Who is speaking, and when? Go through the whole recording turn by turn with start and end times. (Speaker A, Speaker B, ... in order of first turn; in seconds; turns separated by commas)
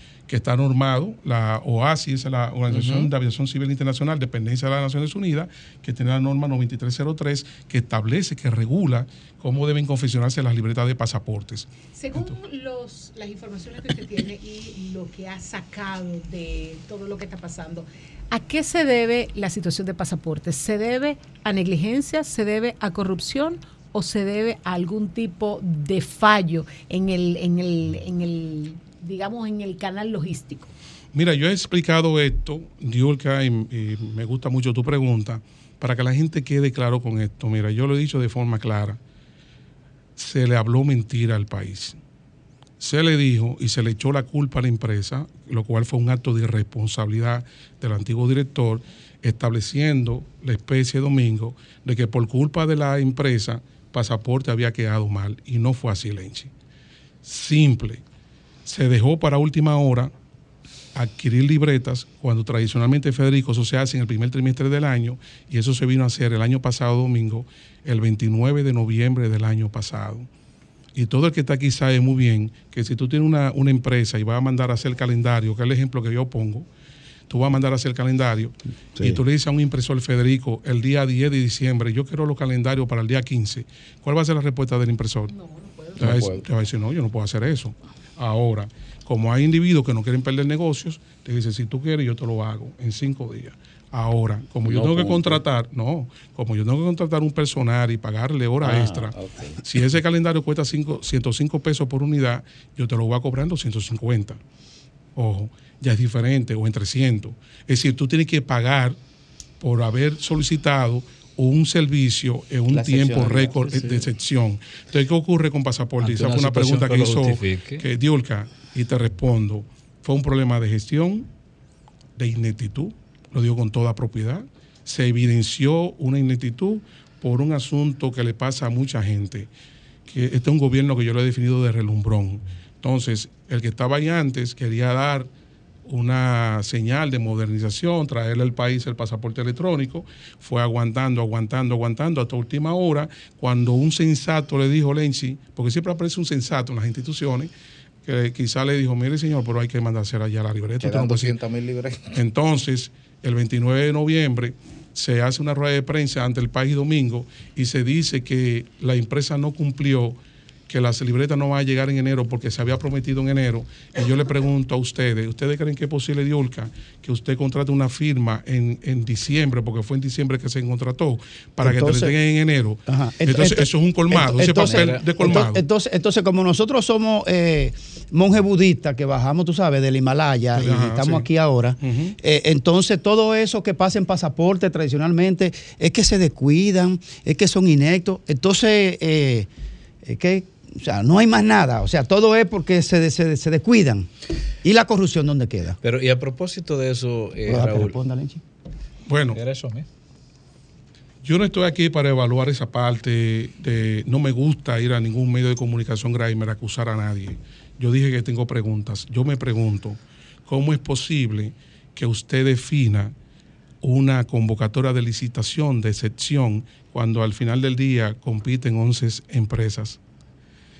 Speaker A: 0.3-12.3, Speaker B: 2.7-3.1, Speaker C: 11.9-30.7, Speaker A: 31.1-39.0, Speaker A: 40.2-42.0, Speaker A: 42.8-56.5, Speaker A: 57.2-58.0, Speaker A: 58.6-60.1, Speaker A: 60.9-70.3, Speaker A: 70.9-76.7, Speaker A: 77.3-85.3, Speaker C: 85.3-86.0, Speaker B: 86.0-86.4, Speaker A: 86.0-104.4, Speaker B: 94.6-95.4, Speaker B: 98.6-99.6, Speaker A: 105.2-109.0, Speaker A: 109.6-121.3, Speaker B: 112.7-114.0, Speaker D: 116.0-117.8, Speaker A: 122.2-129.5, Speaker A: 130.1-135.3, Speaker A: 135.9-147.5, Speaker A: 148.1-151.4, Speaker B: 150.8-152.2, Speaker A: 152.1-160.2, Speaker A: 160.7-175.6, Speaker E: 171.6-172.1, Speaker E: 172.9-189.5, Speaker D: 174.6-175.3, Speaker A: 180.5-181.2, Speaker A: 181.8-182.1, Speaker E: 190.1-194.1, Speaker E: 194.6-195.8, Speaker D: 195.8-198.0, Speaker E: 197.5-198.4, Speaker A: 199.1-199.4, Speaker D: 199.3-199.8, Speaker A: 201.2-213.1, Speaker A: 213.8-220.0